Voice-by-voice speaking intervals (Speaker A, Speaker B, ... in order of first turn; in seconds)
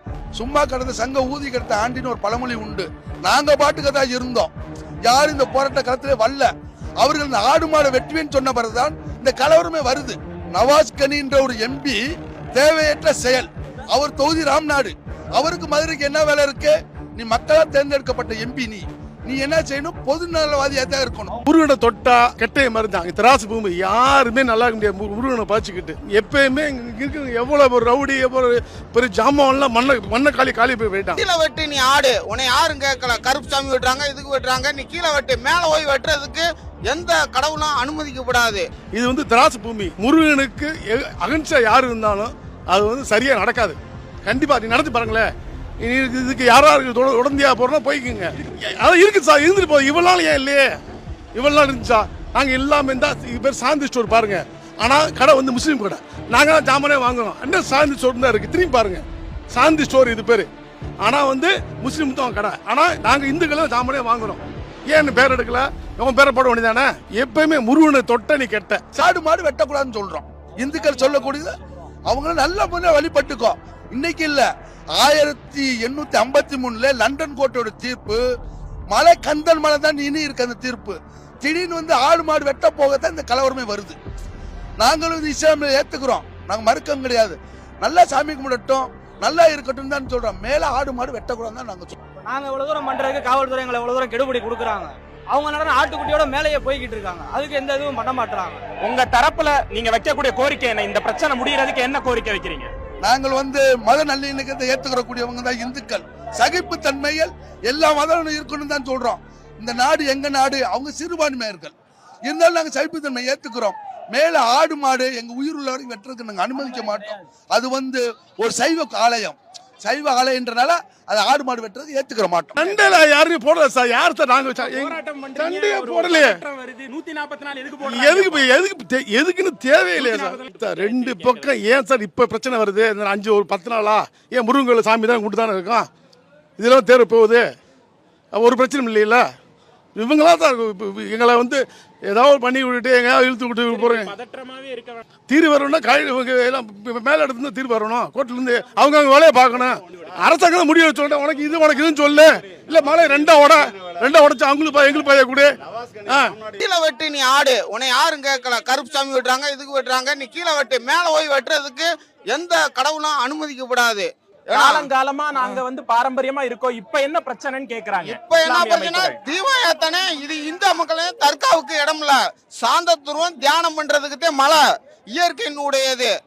Speaker A: 0.3-4.5, 5.0-12.0, 12.5-21.4, 68.9-71.5, 72.1-78.2, 78.9-84.0, 84.8-91.9, 103.0-111.7, 112.2-123.0
Speaker B: 21.4-31.2, 38.9-45.3, 45.8-50.7, 51.3-60.5, 61.0-68.9, 122.6-126.4, 127.8-135.9, 136.6-137.4, 138.3-139.2, 139.9-144.1, 145.3-156.3
Speaker C: 31.1-38.6, 156.6-165.6, 168.0-176.1
Speaker D: 92.3-98.6
Speaker E: 98.8-102.7, 124.6-128.4, 129.9-131.6, 143.7-145.0, 164.5-169.2